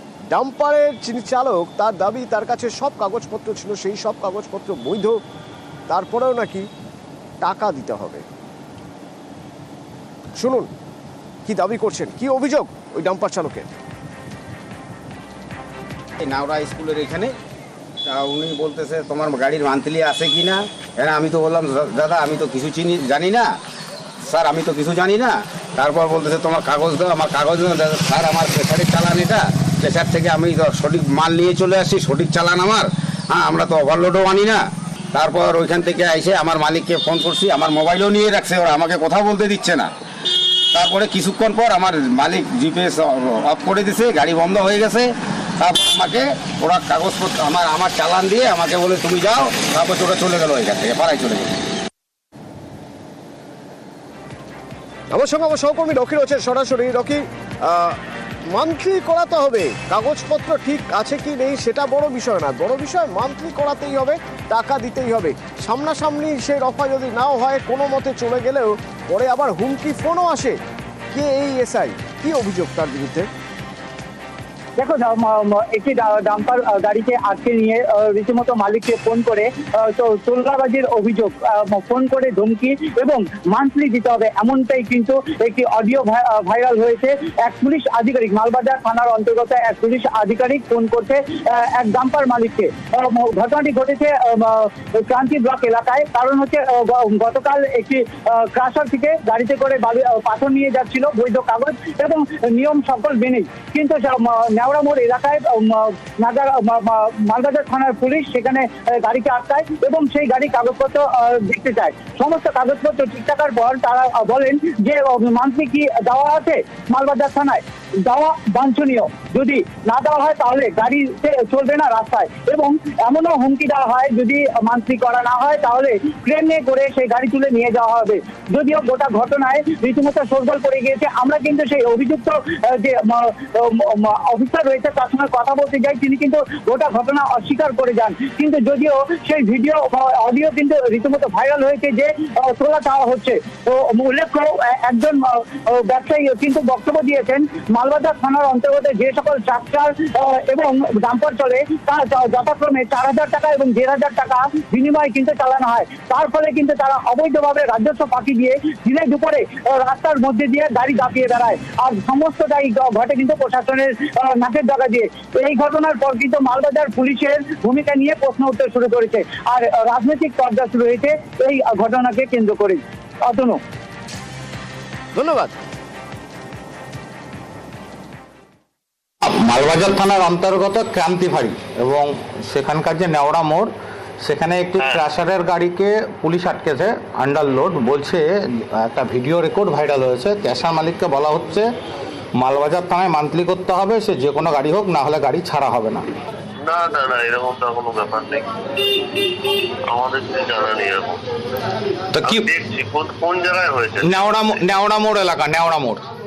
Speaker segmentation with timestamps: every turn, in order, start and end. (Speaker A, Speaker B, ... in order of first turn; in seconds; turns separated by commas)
Speaker A: 0.3-5.2, Speaker A: 5.9-6.7, Speaker A: 7.4-8.2, Speaker A: 10.4-10.7, Speaker A: 11.5-13.7, Speaker B: 16.2-17.3, Speaker B: 18.1-23.5, Speaker B: 24.2-34.6, Speaker B: 35.1-39.9, Speaker B: 40.7-51.5, Speaker A: 55.1-58.0, Speaker A: 58.5-70.6, Speaker A: 71.1-73.3, Speaker C: 74.8-173.6, Speaker A: 175.2-175.6, Speaker D: 179.2-183.7, Speaker D: 184.2-191.7, Speaker D: 192.4-196.0, Speaker E: 196.6-199.0, Speaker E: 199.9-201.2, Speaker D: 202.2-202.5, Speaker E: 202.2-204.4, Speaker D: 204.0-206.0